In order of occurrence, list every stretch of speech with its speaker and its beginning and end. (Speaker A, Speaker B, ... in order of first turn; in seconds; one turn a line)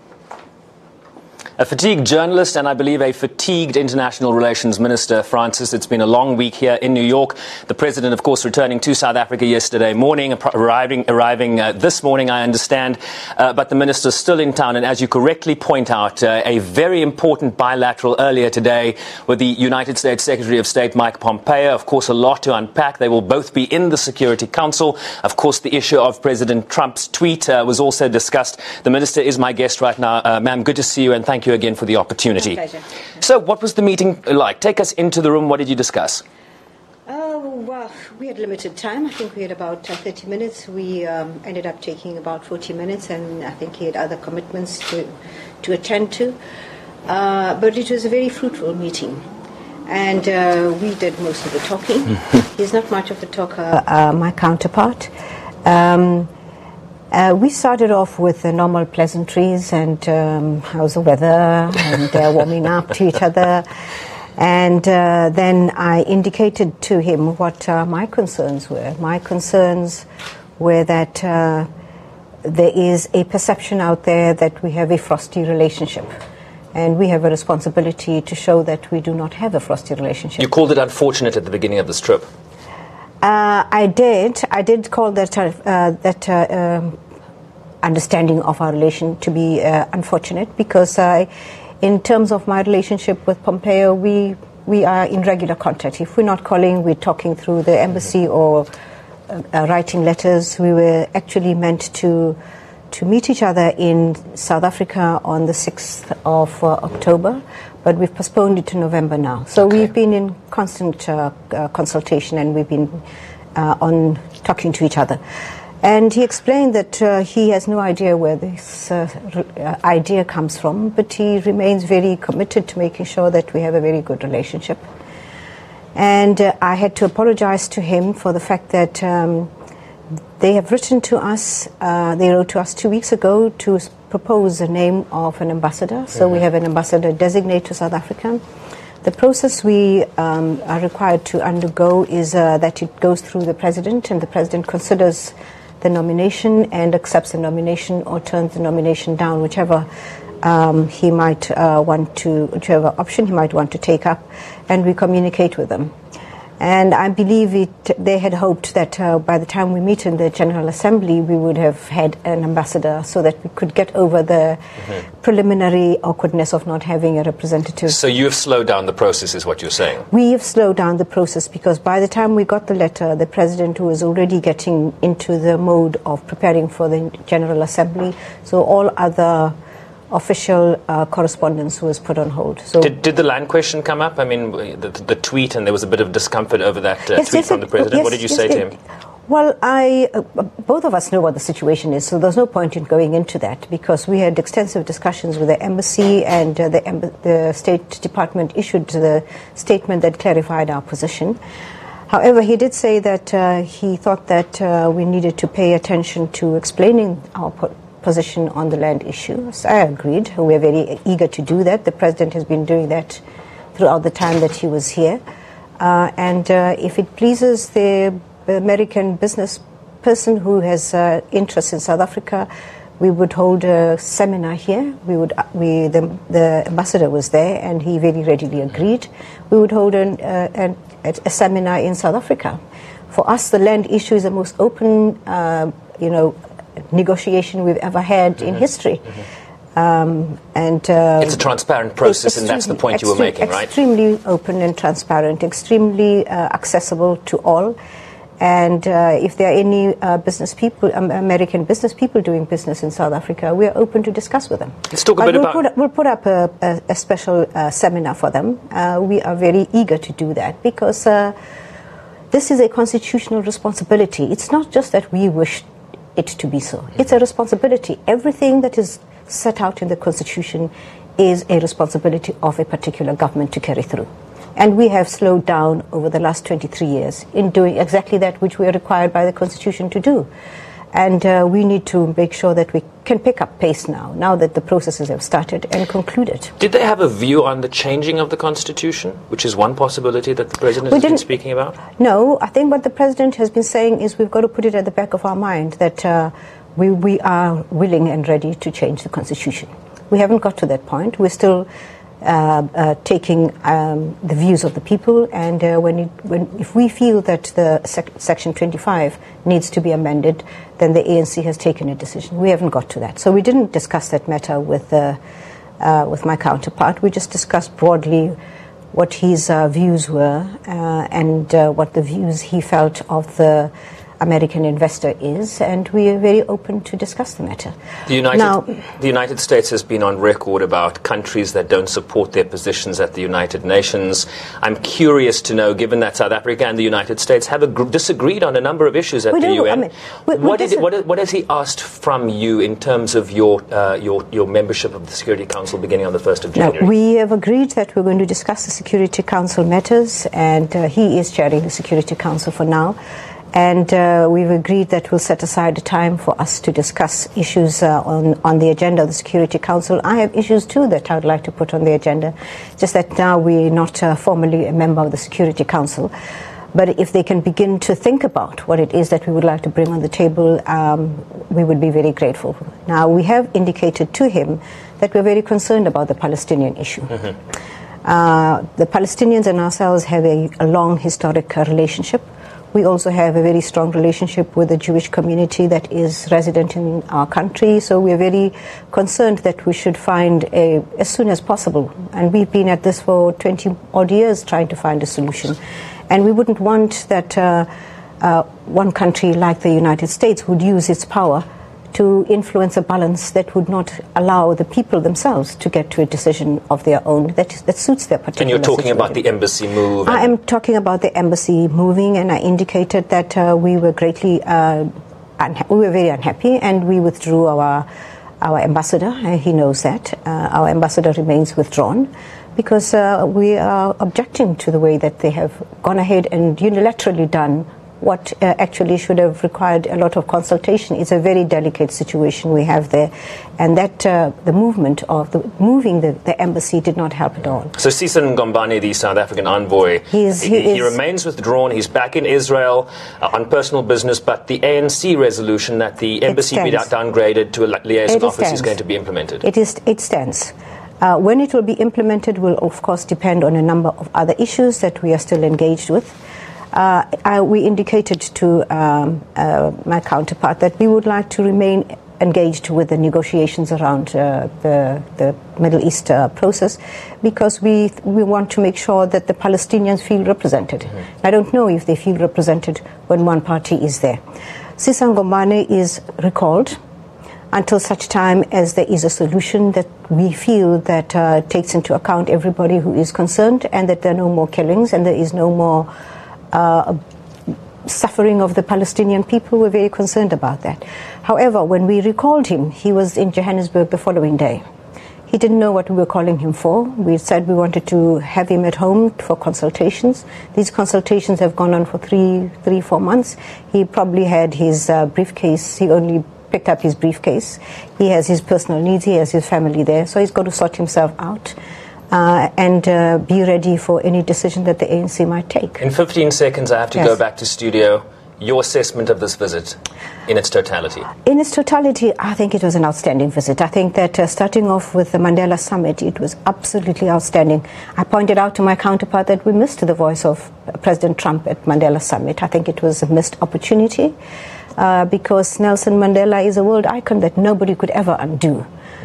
Speaker A: 1.6-32.6
Speaker A: 33.2-36.2
Speaker B: 37.1-46.4
Speaker B: 47.1-49.2
Speaker B: 49.9-55.1
Speaker B: 55.6-56.3
Speaker B: 57.1-63.7
Speaker B: 64.4-70.1
Speaker B: 70.6-71.7
Speaker B: 72.4-76.1
Speaker B: 76.7-80.5
Speaker A: 80.4-82.3
Speaker B: 83.2-87.0
Speaker B: 87.8-91.3
Speaker B: 91.8-98.7
Speaker B: 99.3-102.4
Speaker B: 102.9-113.0
Speaker B: 113.5-115.2
Speaker B: 115.8-124.8
Speaker B: 126.0-129.5
Speaker B: 130.4-138.4
Speaker B: 139.0-149.9
Speaker B: 150.4-155.9
Speaker B: 156.6-164.6
Speaker B: 165.2-168.0
Speaker A: 167.9-170.1
Speaker B: 170.1-179.6
Speaker B: 180.1-182.9
Speaker A: 182.8-188.8
Speaker B: 187.2-188.7
Speaker B: 189.3-201.4
Speaker B: 202.1-213.2
Speaker B: 213.8-215.2
Speaker B: 215.8-222.5
Speaker B: 223.0-232.6
Speaker B: 233.1-236.4
Speaker B: 236.9-239.2
Speaker B: 239.8-241.4
Speaker A: 241.2-243.7
Speaker B: 242.0-247.8
Speaker B: 248.4-261.4
Speaker A: 254.9-255.6
Speaker B: 262.3-280.3
Speaker B: 280.9-286.5
Speaker A: 286.6-291.8
Speaker B: 290.9-291.2
Speaker B: 291.8-301.7
Speaker B: 302.2-315.2
Speaker B: 315.8-318.4
Speaker B: 318.9-327.7
Speaker A: 328.1-346.9
Speaker B: 328.3-328.7
Speaker B: 339.3-340.8
Speaker B: 346.6-353.0
Speaker B: 353.5-366.1
Speaker B: 366.7-377.3
Speaker B: 378.0-395.6
Speaker B: 396.1-397.7
Speaker B: 398.2-409.2
Speaker A: 408.4-410.3
Speaker B: 410.1-417.9
Speaker B: 418.4-437.7
Speaker A: 437.7-449.4
Speaker B: 440.1-440.9
Speaker B: 446.3-446.9
Speaker B: 448.1-448.8
Speaker B: 449.4-456.2
Speaker B: 456.7-474.2
Speaker B: 474.8-476.8
Speaker B: 477.5-485.9
Speaker B: 486.5-487.0
Speaker B: 487.5-494.6
Speaker B: 495.3-511.6
Speaker B: 512.1-515.8
Speaker A: 515.8-521.1
Speaker B: 521.2-534.1
Speaker B: 534.8-538.6